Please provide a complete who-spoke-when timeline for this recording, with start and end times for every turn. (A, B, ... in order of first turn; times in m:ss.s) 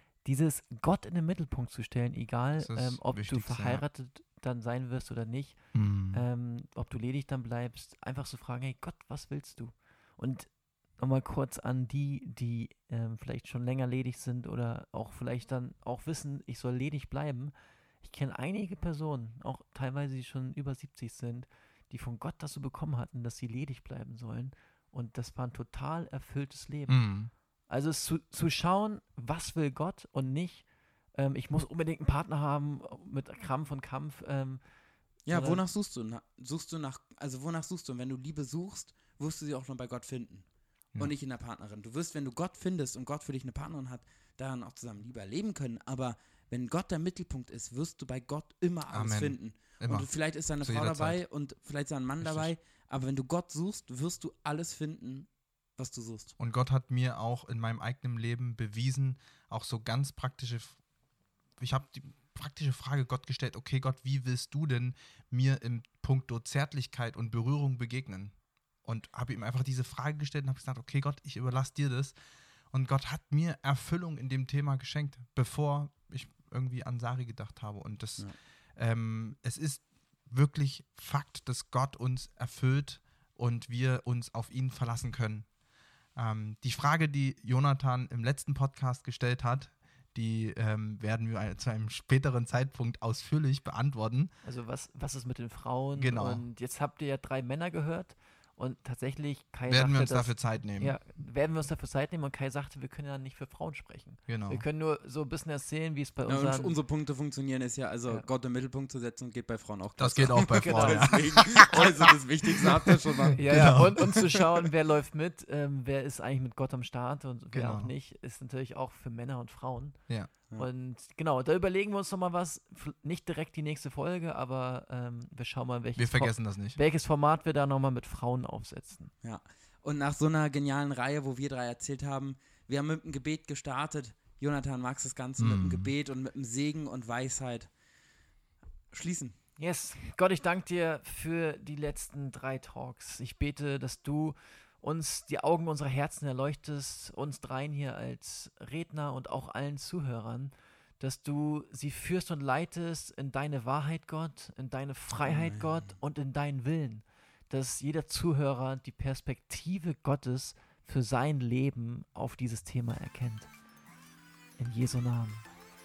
0:00.2-0:34.6 A
0:02.6-0:03.8 B
0:05.7-0:06.2 B
0:26.9-0:27.3 B
0:35.2-0:35.6 A
0:35.2-0:56.3 C
0:48.9-0:51.2 B
0:52.2-0:52.5 B
0:56.4-1:00.8 B
1:01.6-1:08.3 B
1:08.8-1:12.1 B
1:12.7-1:25.4 B
1:26.2-1:34.3 B
1:34.4-1:46.8 A
1:35.9-1:36.4 B
1:39.7-1:41.0 B
1:44.3-1:44.6 B
1:46.2-1:53.8 C
1:50.0-1:52.0 B
1:50.5-1:51.5 A
1:53.4-2:00.0 A
1:53.5-1:54.1 B
1:57.5-1:57.9 B
2:00.5-2:09.1 A
2:06.0-2:06.8 B
2:09.2-2:17.7 C
2:15.4-2:15.9 B
2:18.9-2:19.3 C
2:19.6-2:43.5 A
2:35.2-2:35.9 C
2:44.6-2:45.5 A